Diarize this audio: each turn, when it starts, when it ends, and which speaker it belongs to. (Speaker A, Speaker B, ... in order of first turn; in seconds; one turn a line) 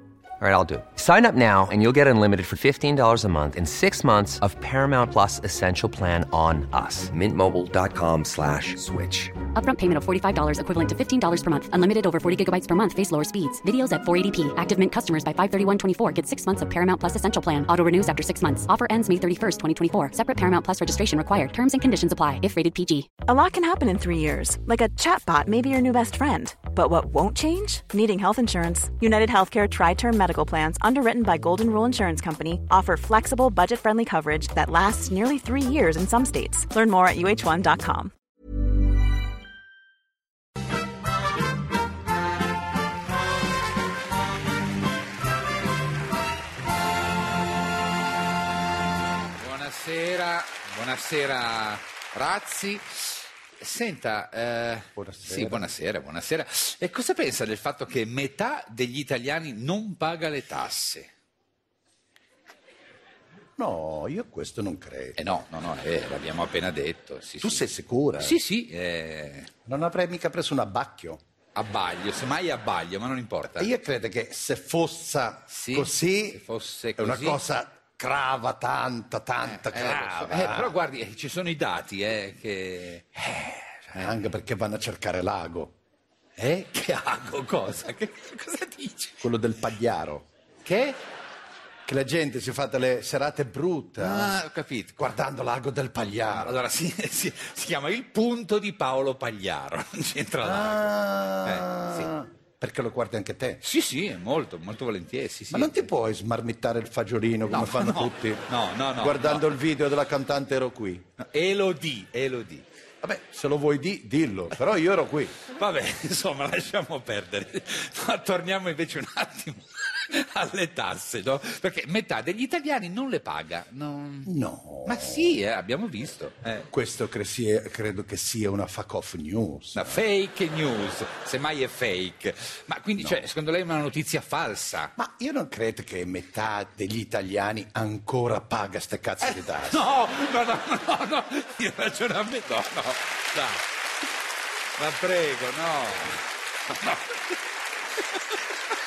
Speaker A: 0.4-9.3
Speaker B: 9.5-23.2
Speaker C: 23.2-38.1
Speaker D: 49.4-61.1
Speaker E: 55.0-55.7
Speaker E: 63.6-65.2
Speaker D: 65.2-67.7
Speaker E: 67.4-68.4
Speaker D: 68.2-69.5
Speaker E: 69.7-71.2
Speaker D: 71.5-73.7
Speaker E: 73.5-76.4
Speaker D: 75.5-77.4
Speaker E: 77.0-80.7
Speaker D: 79.4-84.2
Speaker E: 83.3-85.8
Speaker D: 86.4-89.2
Speaker E: 89.2-90.3
Speaker D: 90.6-91.0
Speaker E: 91.9-94.4
Speaker D: 94.0-95.1
Speaker E: 95.0-96.6
Speaker D: 96.3-102.1
Speaker E: 100.4-103.6
Speaker D: 103.6-105.9
Speaker E: 105.5-108.5
Speaker D: 107.5-109.6
Speaker E: 109.0-111.0
Speaker D: 111.2-112.7
Speaker E: 113.0-115.3
Speaker D: 115.5-124.3
Speaker E: 124.3-125.4
Speaker D: 124.8-126.7
Speaker E: 126.7-130.0
Speaker D: 129.7-134.9
Speaker E: 133.0-133.2
Speaker E: 135.0-139.8
Speaker D: 139.2-143.7
Speaker D: 144.8-147.3
Speaker D: 148.0-148.4